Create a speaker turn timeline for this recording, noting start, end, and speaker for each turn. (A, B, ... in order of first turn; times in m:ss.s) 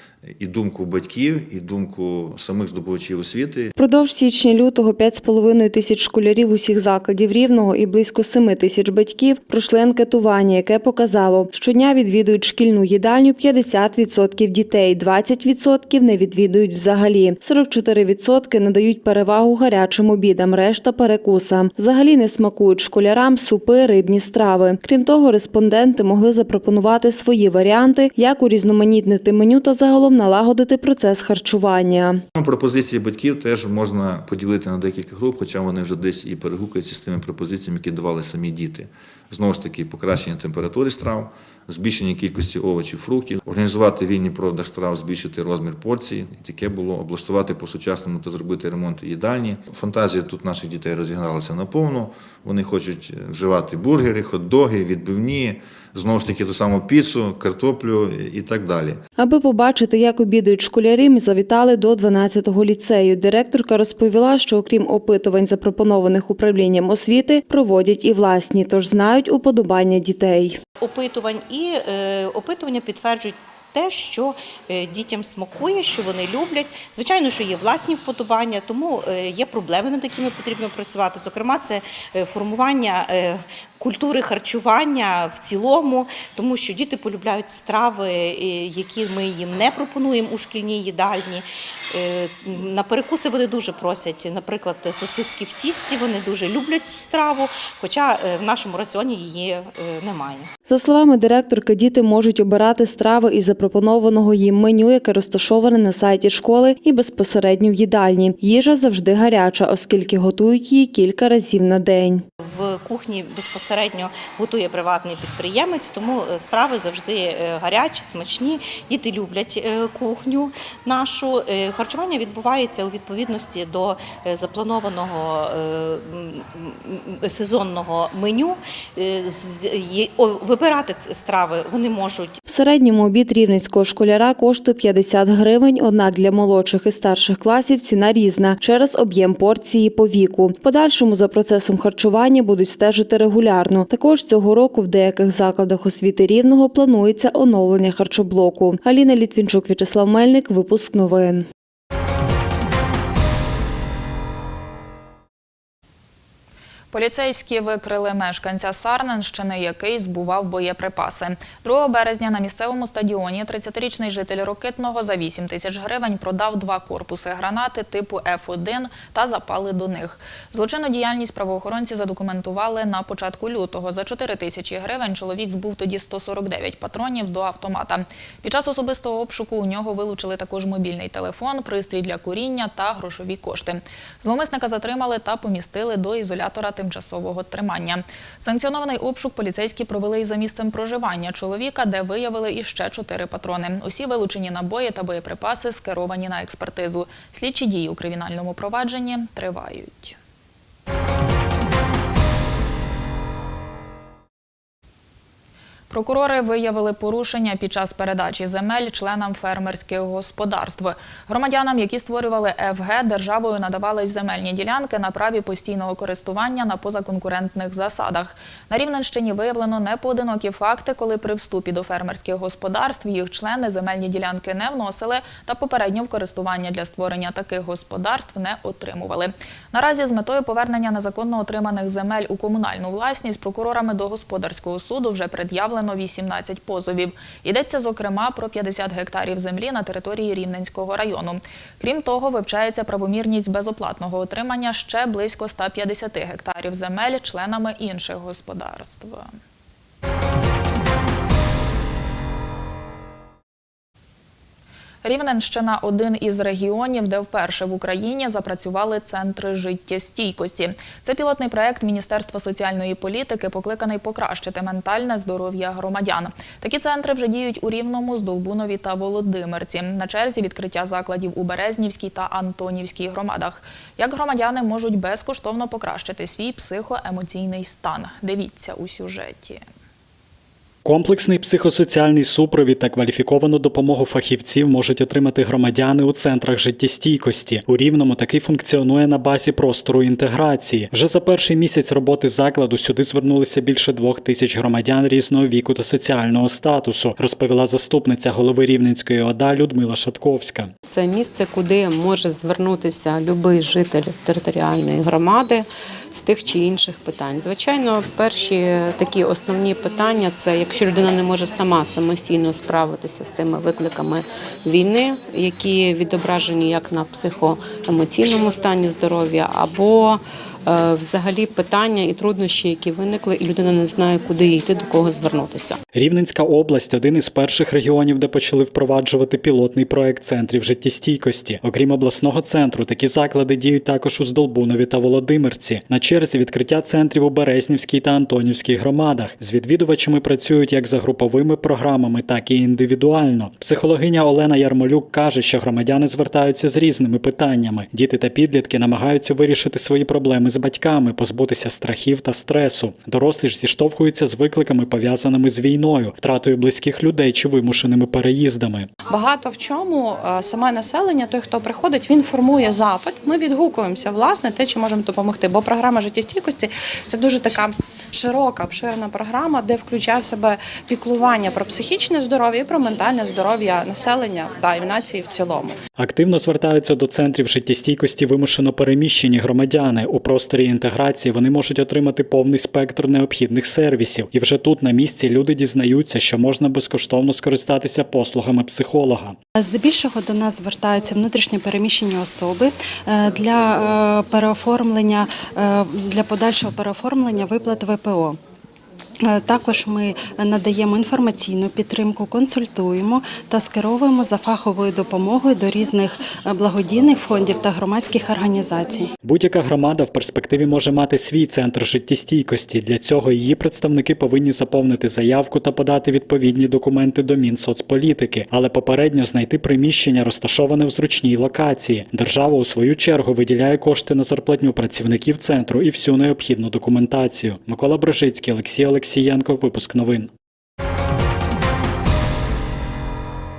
0:00.4-0:03.7 A
0:03.8-0:32.2 B
0:32.3-0:59.0 A
0:59.2-1:10.6 B
1:10.8-1:40.5 C
1:40.7-1:52.2 B
1:52.4-2:12.4 C
2:12.5-2:31.4 B
2:36.9-3:20.2 D
3:25.9-4:09.3 D
4:15.0-4:39.6 D
4:40.8-5:00.7 E
5:00.8-5:25.8 F
5:25.9-5:58.9 E
5:59.1-6:15.7 G
6:16.0-6:29.4 E
6:29.6-6:38.4 H
6:39.3-6:49.0 H
6:49.2-7:10.3 E